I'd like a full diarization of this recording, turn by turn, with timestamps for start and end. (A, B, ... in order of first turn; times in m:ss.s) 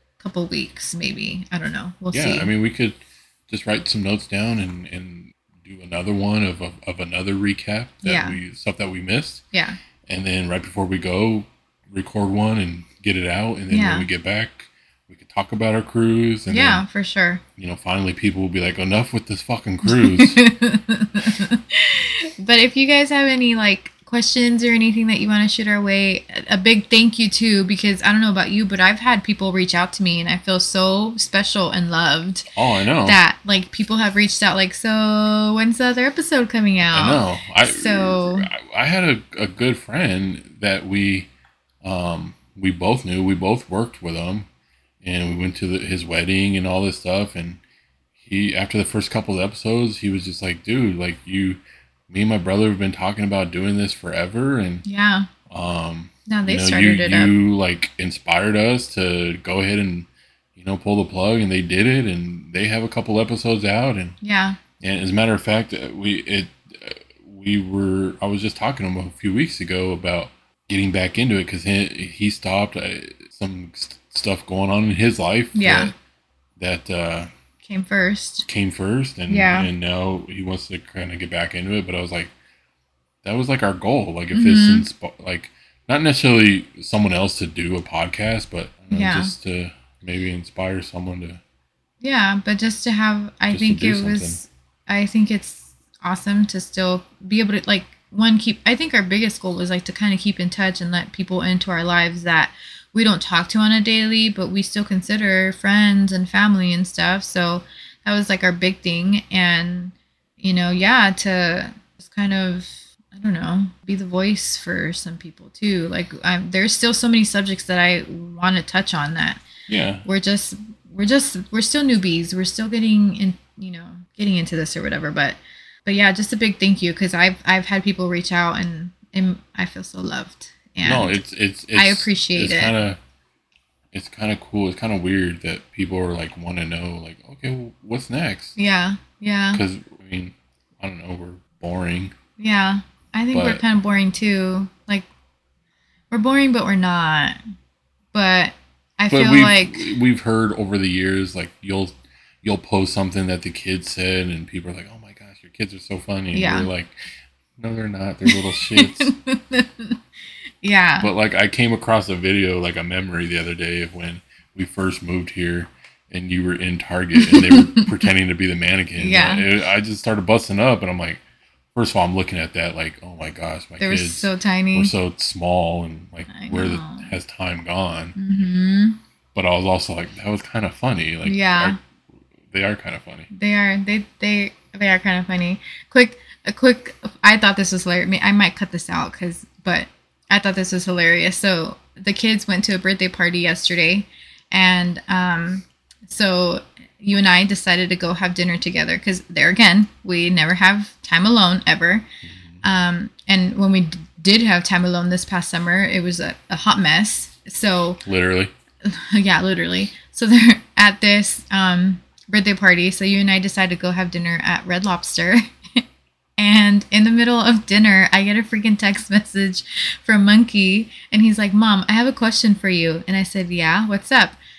0:00.2-0:02.5 A
0:02.1-0:09.4 B
0:08.0-0:08.4 A
0:09.5-0:09.8 A
0:10.1-0:16.8 B
0:13.7-0:14.1 A
0:16.5-0:17.4 A
0:17.6-0:20.4 B
0:19.8-0:32.5 A
0:32.6-0:33.2 B
0:33.0-0:38.5 A
0:36.9-0:41.3 B
0:41.8-0:44.5 B
0:45.0-0:47.6 B
0:48.2-0:54.8 B
0:54.8-0:55.3 A
0:55.5-1:04.2 B
0:56.3-0:57.4 A
1:04.2-1:04.6 A
1:04.8-1:16.0 B
1:15.6-1:15.9 A
1:16.6-1:17.3 B
1:17.6-1:18.5 A
1:18.5-1:22.3 B
1:19.3-1:19.7 A
1:23.2-1:31.4 B
1:24.3-1:24.9 A
1:28.9-1:29.3 A
1:32.0-1:59.4 A
1:33.5-1:34.4 B
1:59.7-2:00.0 B
2:00.0-2:11.2 A
2:10.8-2:13.0 B
2:11.8-2:12.7 A
2:13.9-2:18.6 B
2:18.6-2:19.6 A
2:19.5-2:22.1 B
2:22.4-2:25.1 A
2:23.3-2:23.6 B
2:26.1-2:27.4 A
2:28.1-2:29.9 A
2:29.1-2:36.9 B
2:36.3-2:36.7 A
2:37.6-2:39.1 B
2:38.3-2:40.0 A
2:40.6-2:41.1 A
2:41.0-2:51.2 B
2:47.2-2:48.0 A
2:49.0-2:49.5 A
2:51.8-2:58.2 B
2:53.8-2:54.9 A
2:56.3-2:57.1 A
2:58.2-2:59.0 A
2:59.3-3:01.8 B
3:01.2-3:01.8 A
3:02.5-3:03.3 B
3:03.3-3:22.1 A
3:22.2-3:22.6 B
3:22.6-3:28.0 A
3:28.0-3:28.5 B
3:28.8-3:35.8 A
3:36.4-3:44.4 A